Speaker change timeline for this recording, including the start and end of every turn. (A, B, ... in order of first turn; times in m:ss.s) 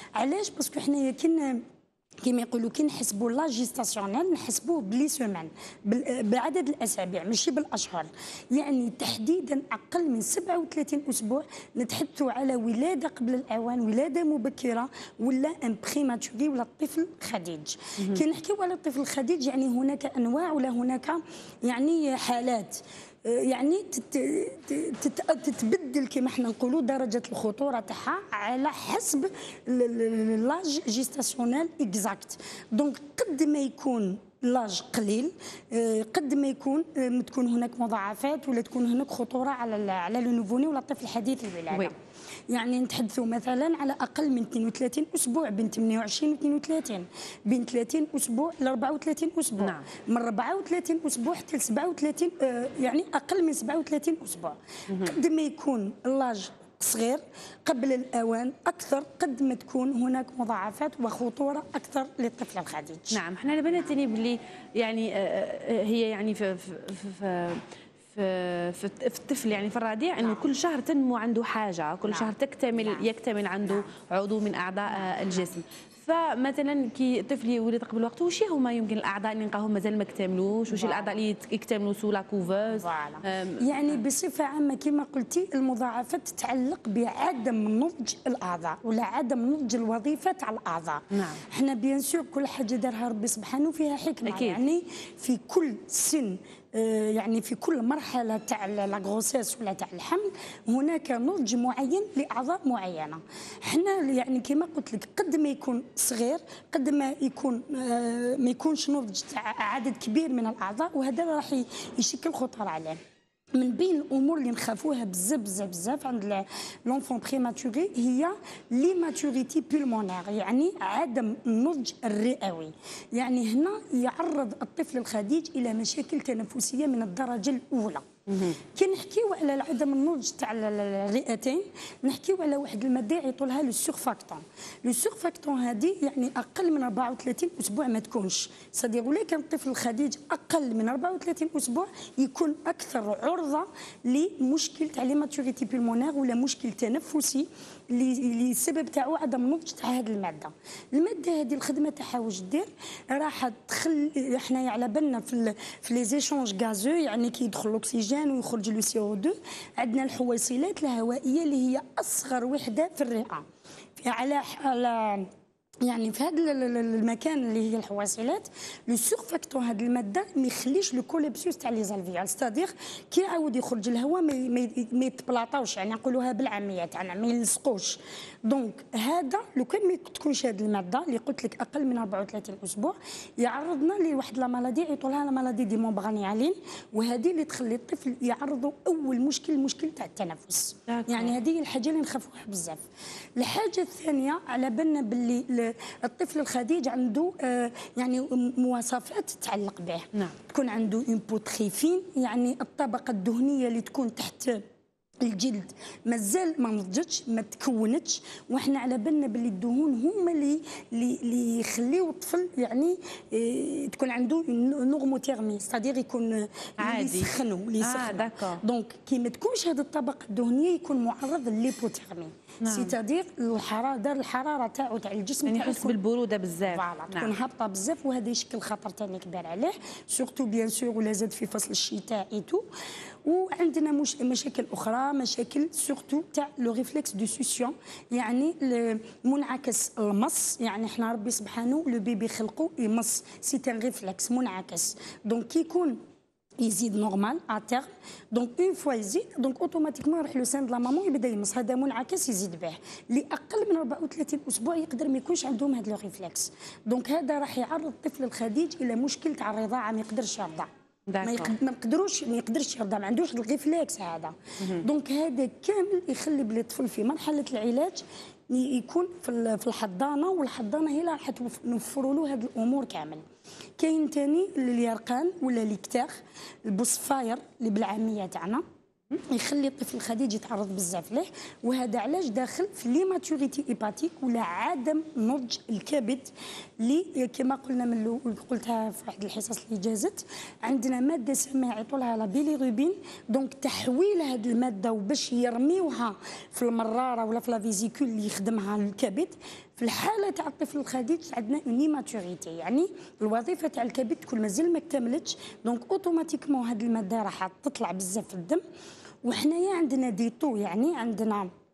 0:00.2-0:01.6 A
0:02.2-0:42.0 A
0:42.5-1:03.2 A
0:49.6-0:49.9 B
0:54.9-0:55.2 B
1:03.1-1:24.0 B
1:20.7-1:21.2 A
1:22.8-1:53.0 A
1:31.1-1:31.4 B
1:34.3-1:34.6 B
1:53.5-2:43.4 A
2:08.3-2:08.6 B
2:44.0-2:45.3 A
2:45.8-3:12.8 A
3:10.9-3:11.3 B
3:13.4-3:24.6 A
3:25.2-3:46.0 A
3:36.8-3:38.6 B
3:42.6-3:43.0 B
3:45.4-3:47.4 B
3:46.7-3:52.6 A
3:53.2-4:06.0 A
4:06.6-4:20.7 A
4:21.1-4:21.5 B
4:21.2-4:33.2 A
4:33.8-4:38.6 A
4:39.2-5:08.6 A
5:09.2-5:11.5 A